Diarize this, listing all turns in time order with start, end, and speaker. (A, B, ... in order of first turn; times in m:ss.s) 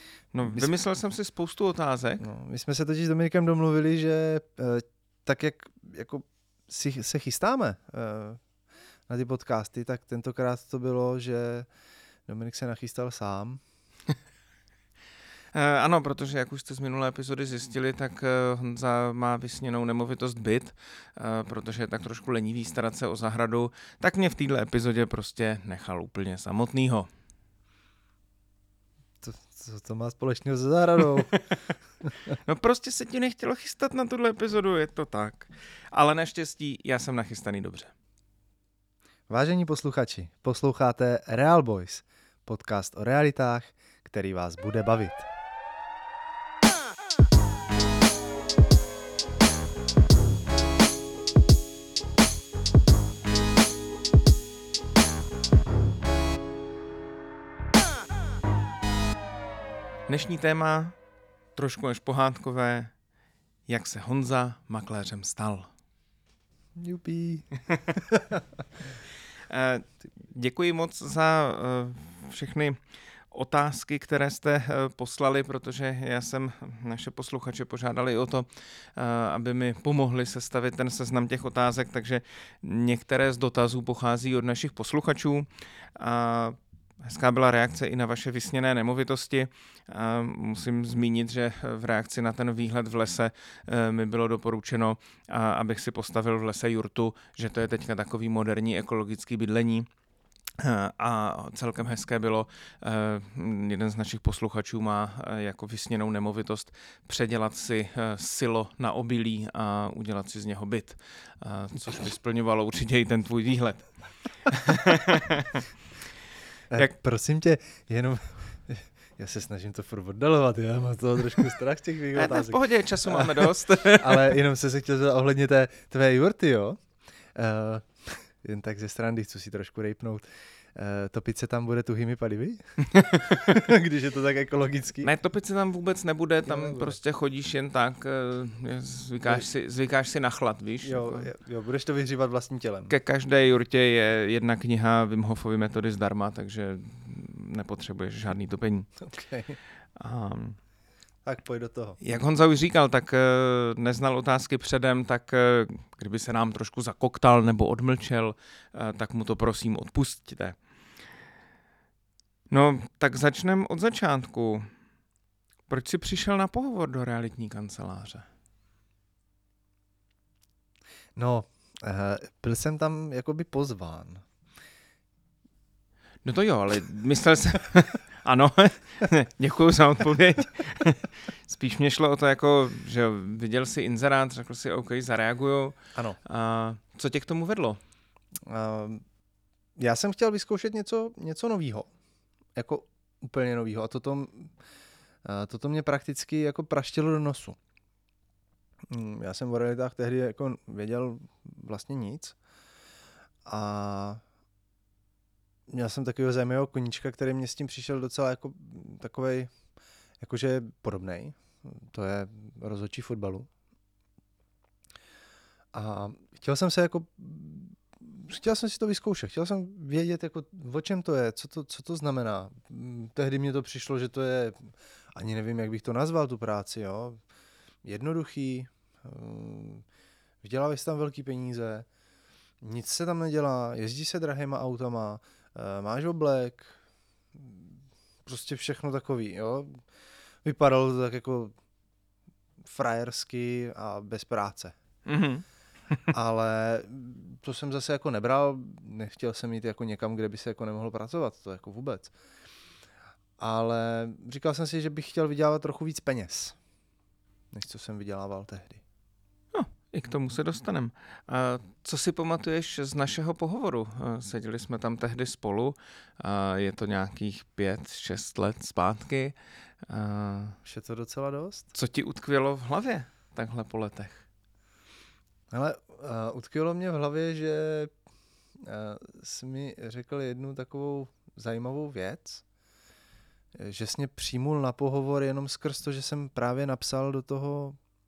0:00.3-0:02.2 A
0:00.4-0:00.7 B
0:02.2-0:08.4 B
0:09.1-0:11.7 B
0:12.3-0:13.6 B
0:15.5-0:27.1 A
0:29.2-0:31.4 B
0:32.0-0:32.3 B
0:32.3-0:37.9 A
0:39.3-0:45.3 B
1:00.1-1:01.0 A
1:01.6-1:02.9 A
1:03.7-1:05.7 A
1:06.8-1:08.6 B
1:09.5-1:12.8 A
1:13.3-1:39.9 A
1:40.6-1:55.7 A
1:56.7-2:06.8 B
2:02.1-2:04.3 A
2:07.3-2:15.1 B
2:12.8-2:13.5 A
2:15.0-2:21.3 A
2:16.4-2:17.0 B
2:20.8-2:22.9 B
2:22.9-2:28.9 A
2:29.0-2:29.6 B
2:30.0-2:30.6 A
2:31.2-2:32.0 B
2:32.0-2:40.6 A
2:42.5-2:44.7 A
2:45.7-2:48.2 A
2:51.2-2:54.2 B
2:56.2-3:07.8 A
3:08.4-3:09.0 B
3:09.8-3:11.9 B
3:12.5-3:14.5 B
3:15.2-3:17.6 B
3:18.9-3:22.4 B
3:23.4-3:24.2 B
3:25.7-3:29.5 B
3:30.2-3:33.5 B
3:35.7-3:47.2 B
3:47.8-3:49.8 B
3:50.4-3:51.8 B
3:52.6-3:56.7 B
3:57.3-3:59.8 B
4:00.4-4:01.5 B
4:02.6-4:04.8 B
4:05.0-4:05.4 A
4:06.1-4:12.1 B
4:13.4-4:16.6 B
4:17.5-4:18.8 B
4:19.5-4:30.6 A
4:30.6-4:31.7 B
4:31.7-4:34.2 A
4:35.5-4:37.9 B
4:38.6-4:42.4 B
4:43.5-4:47.8 B